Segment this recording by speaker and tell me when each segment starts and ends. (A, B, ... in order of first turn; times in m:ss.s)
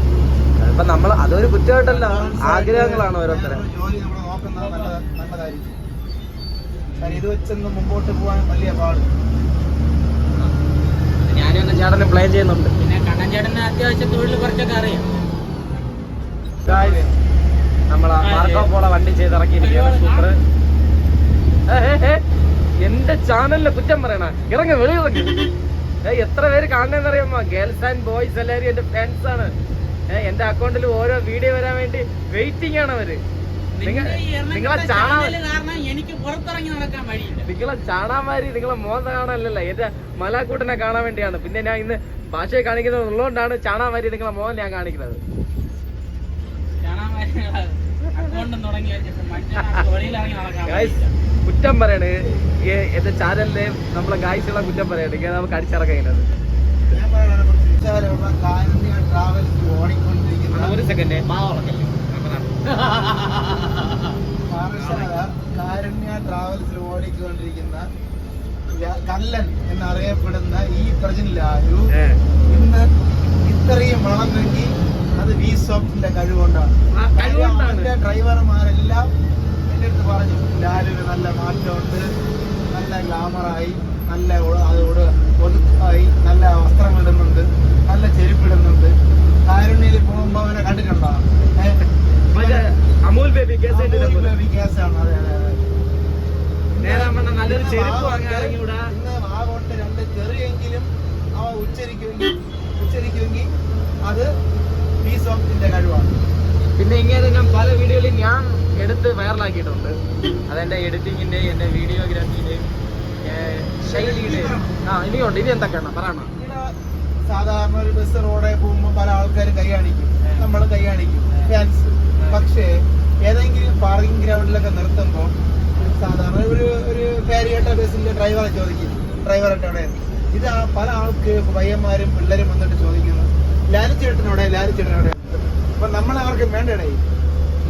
0:00.6-0:03.6 A
0:01.8-0:05.8 B
0:07.0-0:09.1 B
0:11.3-0:12.7 A
0:12.8-0:15.1 C
0:16.6-0:17.2 B
0:16.6-0:17.0 A
0:17.9-0:20.4 A
0:18.2-0:18.7 C
0:19.6-0:20.3 C
0:21.7-0:22.2 A
0:22.8-0:25.3 A
0:26.0-0:29.5 A
0:30.1-0:33.2 A
0:33.8-0:37.5 C
0:33.8-0:35.4 A
0:37.4-0:45.2 A
0:46.8-0:51.1 C
0:49.6-0:49.9 A
0:50.7-0:50.9 A
0:51.4-0:56.3 A
0:56.9-1:00.8 B
1:00.5-1:04.0 A
1:04.5-1:07.9 B
1:04.8-1:05.1 A
1:08.7-1:11.9 B
1:11.9-1:12.2 A
1:12.5-1:12.9 B
1:13.4-1:19.1 B
1:16.9-1:17.9 A
1:19.7-1:22.1 B
1:22.7-1:28.9 B
1:29.4-1:31.8 B
1:32.3-1:34.3 A
1:32.3-1:32.7 B
1:33.7-1:35.6 B
1:36.7-1:43.5 B
1:36.8-1:38.9 A
1:45.0-1:46.2 B
1:46.8-1:49.9 A
1:47.3-1:47.7 B
1:50.5-1:52.6 A
1:53.2-1:56.3 A
1:53.8-1:54.7 B
1:56.4-1:56.7 B
1:57.3-2:17.0 B